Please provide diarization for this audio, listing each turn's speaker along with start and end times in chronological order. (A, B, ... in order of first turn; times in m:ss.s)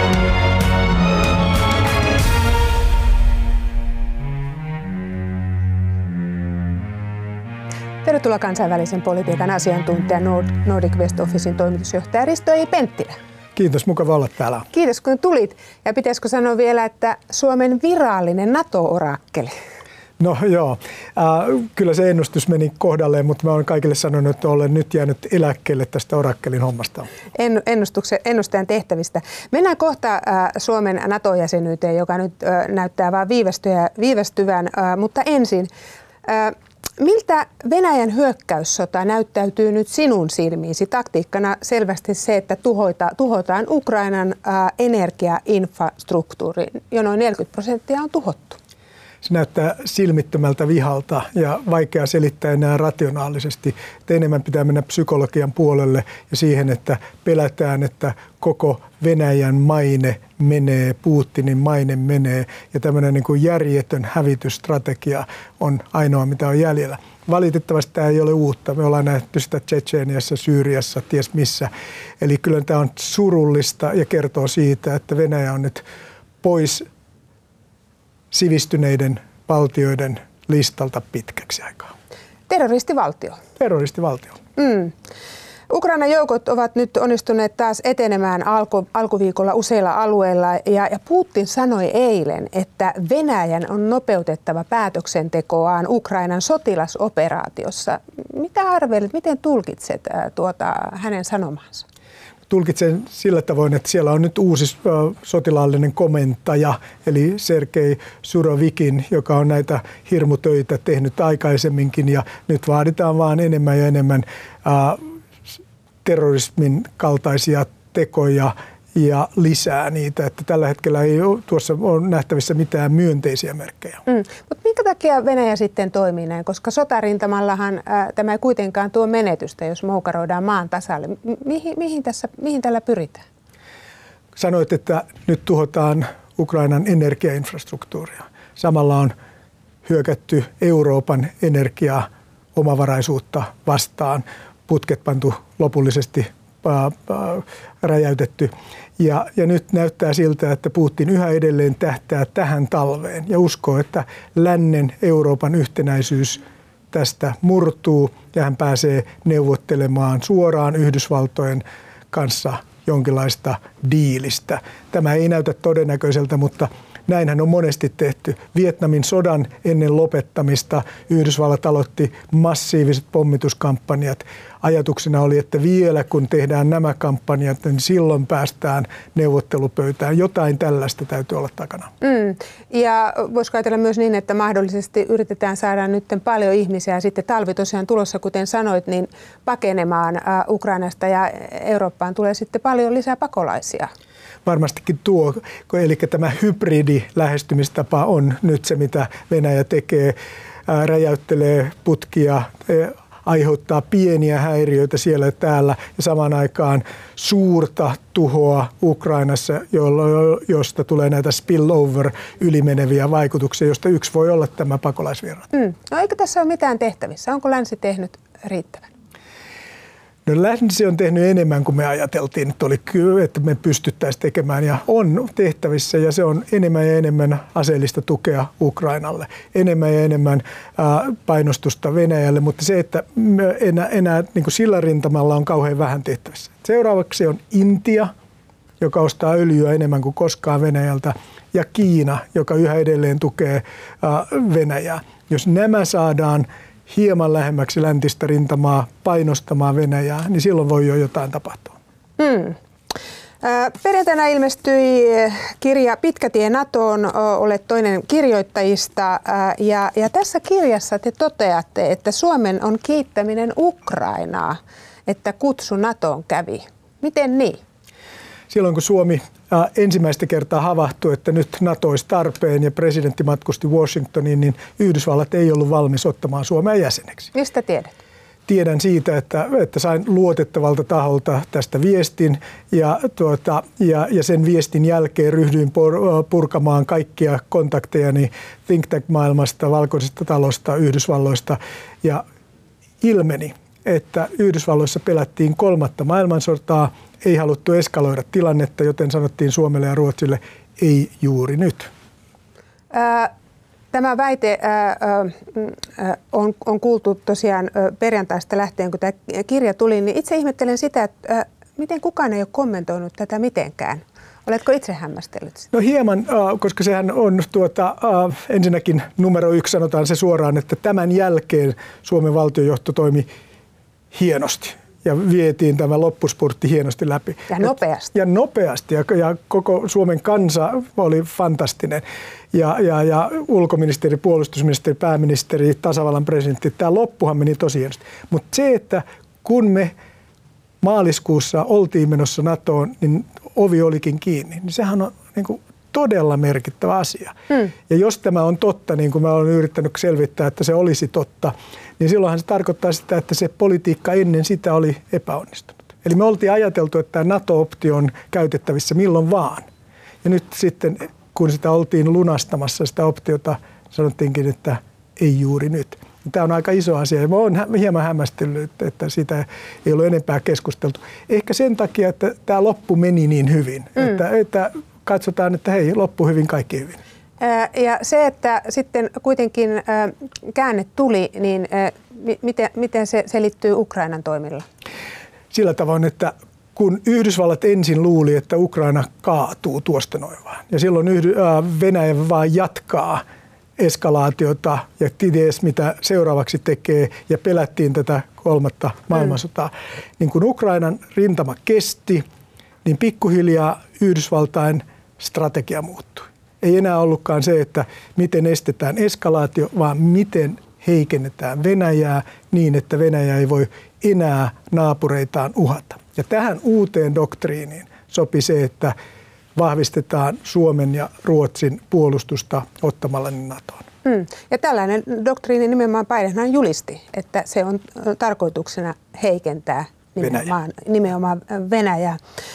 0:08.0-0:13.2 A
0:13.6-0:14.7 B
0:14.7-0:19.5 A
0:20.2-0:27.1 B
0:27.4-0:35.7 A
0:36.2-0:48.6 A
0:49.2-1:15.8 B
1:16.4-1:16.8 B
1:18.3-1:21.9 B
1:22.5-1:23.4 A
1:23.6-1:24.4 B
1:24.6-1:24.9 A
1:25.7-1:41.8 A
1:42.5-1:55.0 B
1:56.0-2:04.0 B
2:04.1-2:13.2 A
2:14.4-2:19.1 B
2:19.8-3:01.9 B
3:02.0-3:13.9 A
3:14.4-3:35.5 B
3:35.5-3:38.9 A
3:40.3-3:58.1 B
3:58.8-4:11.8 B
4:12.2-4:12.6 A
4:13.4-4:27.6 A
4:28.5-4:37.3 B
4:37.3-4:37.9 A
4:38.5-4:52.2 B
4:53.0-5:01.9 B
5:02.9-5:03.3 A
5:03.9-5:15.7 A
5:15.7-5:23.3 B
5:24.1-5:39.9 B
5:27.5-5:28.1 A
5:40.8-5:59.7 B
6:00.2-6:17.0 B
6:17.4-6:24.6 A
6:25.5-6:33.2 B
6:33.8-6:42.2 B
6:42.8-6:59.0 B
6:59.6-7:03.9 B
7:04.0-7:12.2 A
7:10.2-7:10.5 B